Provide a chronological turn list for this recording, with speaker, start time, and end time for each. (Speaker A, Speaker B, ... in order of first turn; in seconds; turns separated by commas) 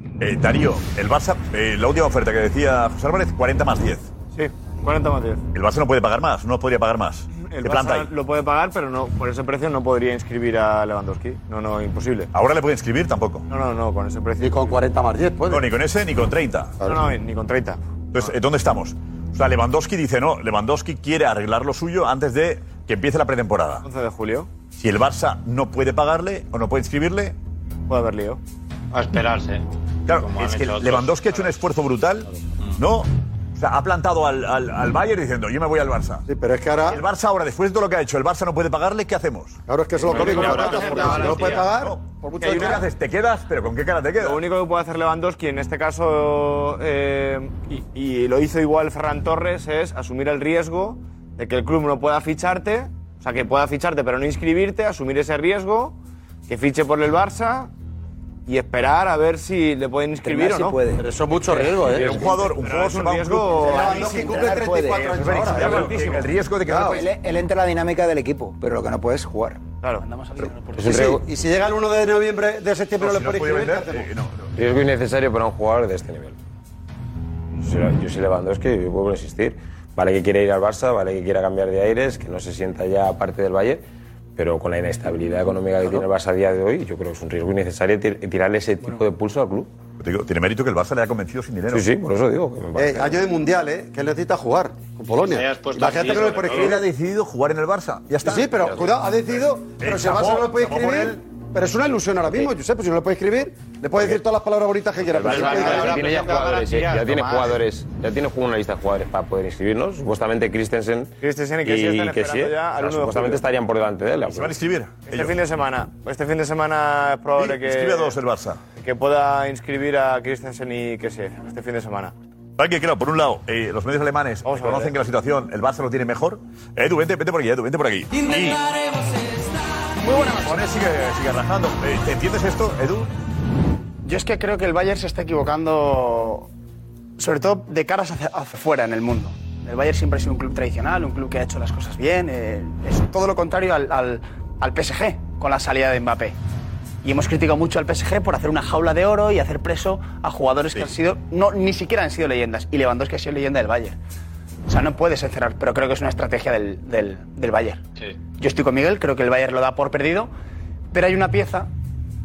Speaker A: 0.2-4.1, Speaker B: 4.3-5.4, Speaker A: 5.5-8.1, Speaker B: 7.4-12.3, Speaker A: 12.3-13.4, Speaker B: 13.5-14.8, Speaker C: 14.4-15.7, Speaker A: 15.5-16.8, Speaker B: 16.8-18.3, Speaker A: 18.1-23.9, Speaker B: 23.9-24.5, Speaker A: 24.8-27.4, Speaker B: 27.9-28.4, Speaker D: 28.9-31.5, Speaker A: 30.1-36.2, Speaker C: 36.3-37.0, Speaker A: 36.9-39.6, Speaker C: 39.7-42.9, Speaker D: 40.0-41.7, Speaker B: 40.2-41.4, Speaker A: 41.7-44.4, Speaker B: 42.4-42.8, Speaker B: 44.2-57.7, Speaker B: 58.5-60.8, Speaker E: 60.3-61.0, Speaker C: 61.0-62.3, Speaker B: 61.9-64.6, Speaker A: 62.0-63.9, Speaker C: 63.6-66.1, Speaker E: 64.3-65.1, Speaker A: 65.1-67.0, Speaker B: 65.5-66.2, Speaker C: 66.6-67.0, Speaker E: 66.7-69.6, Speaker F: 70.0-71.0, Speaker C: 70.8-74.1, Speaker A: 73.0-74.5, Speaker G: 74.6-76.4, Speaker G: 77.6-83.8, Speaker G: 84.4-89.7, Speaker A: 90.0-91.9, Speaker G: 91.7-93.2, Speaker C: 92.8-96.8, Speaker D: 95.2-96.8, Speaker A: 96.5-99.0, Speaker C: 98.2-106.1, Speaker A: 99.7-101.2, Speaker G: 105.1-111.1, Speaker D: 105.2-107.6, Speaker B: 105.5-106.1, Speaker B: 111.2-113.4, Speaker G: 111.6-114.6, Speaker A: 114.3-115.4, Speaker B: 115.1-118.2, Speaker A: 117.4-118.6, Speaker B: 118.8-122.1, Speaker A: 122.6-128.6, Speaker B: 124.5-124.9, Speaker A: 130.1-133.1, Speaker F: 134.1-136.5, Speaker F: 137.2-146.4, Speaker F: 147.0-154.0, Speaker F: 154.7-157.8, Speaker F: 158.4-160.3, Speaker F: 160.9-161.7